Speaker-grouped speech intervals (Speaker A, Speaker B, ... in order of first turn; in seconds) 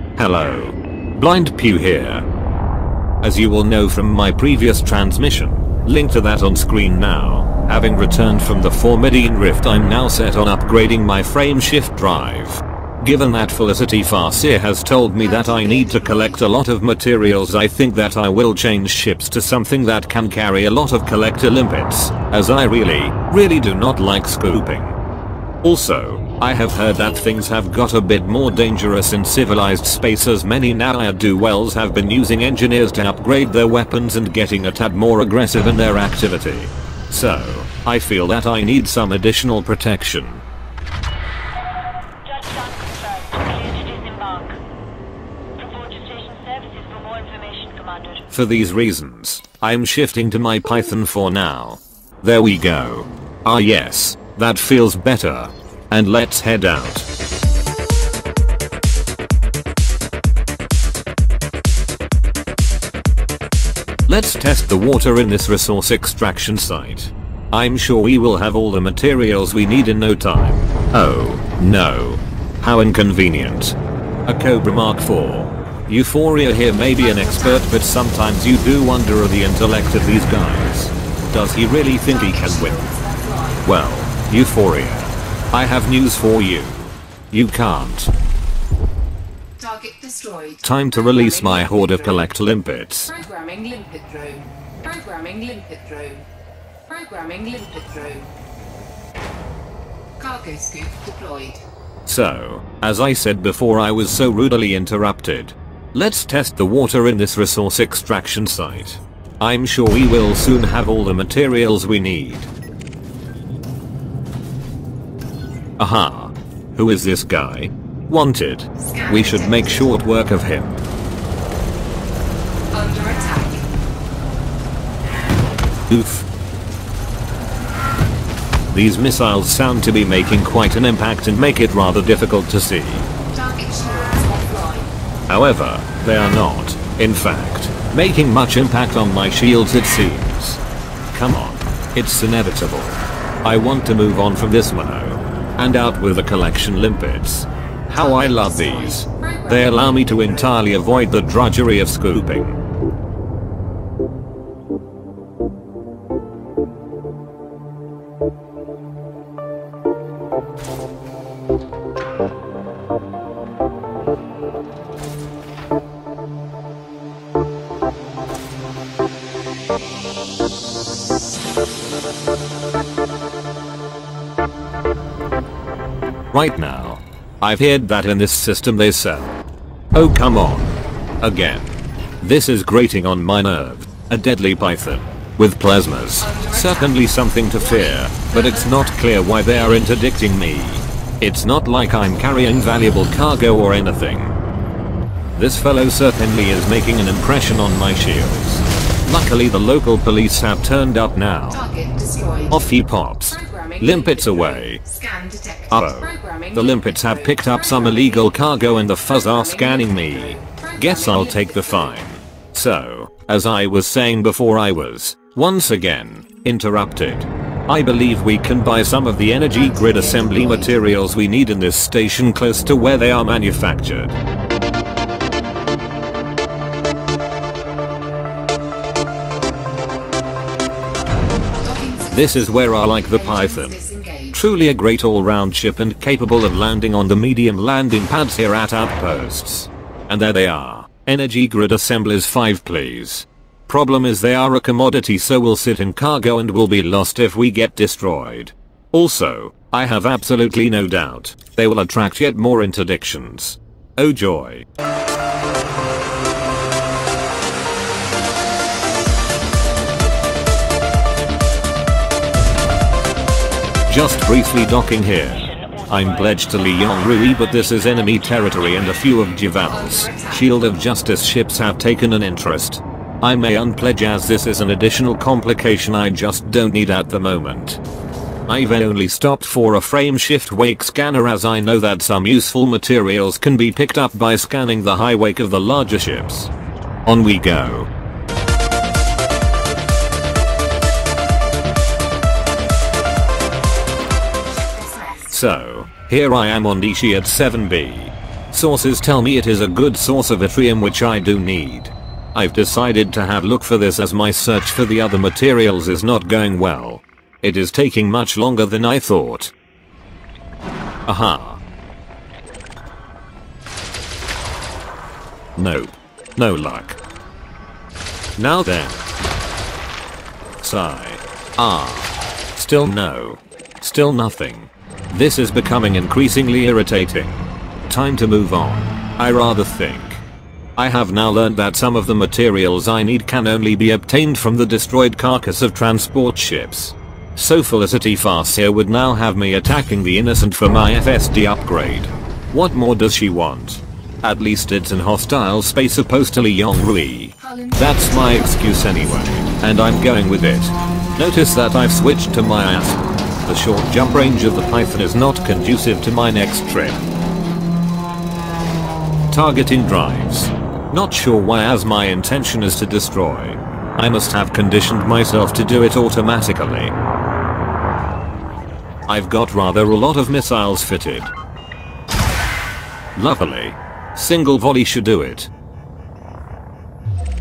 Speaker A: 0.2-2.2, 3.2-25.0, 25.6-40.4, 48.3-57.1, 64.1-82.8, 83.6-88.1, 90.6-93.2, 102.0-112.5, 115.8-120.8, 125.9-126.2, 128.7-133.1, 135.3-140.6, 141.1-152.6, 176.3-179.4, 179.9-194.3, 195.3-201.6, 202.5-204.8, 205.7-224.2, 232.1-233.8, 234.3-254.7, 263.9-277.8, 278.5-286.5, 287.1-287.9, 295.3-309.5, 311.1-311.6, 315.6-317.0, 318.4-319.1, 320.6-330.2, 330.8-357.1, 359.3-366.9, 369.1-371.3, 373.1-375.5
Speaker B: 15.2-16.4, 77.0-77.7, 82.0-83.6, 89.6-92.2, 93.1-96.2, 96.9-98.3, 100.2-101.6, 118.8-119.8, 122.7-123.7, 133.3-134.9, 147.9-150.5, 186.2-186.9, 187.6-189.8, 201.5-202.5, 203.3-211.9, 219.5-220.8, 231.6-232.2, 232.9-234.4, 269.8-270.4, 294.8-295.3, 347.4-349.1
Speaker C: 42.4-44.5, 45.6-48.2, 265.6-265.9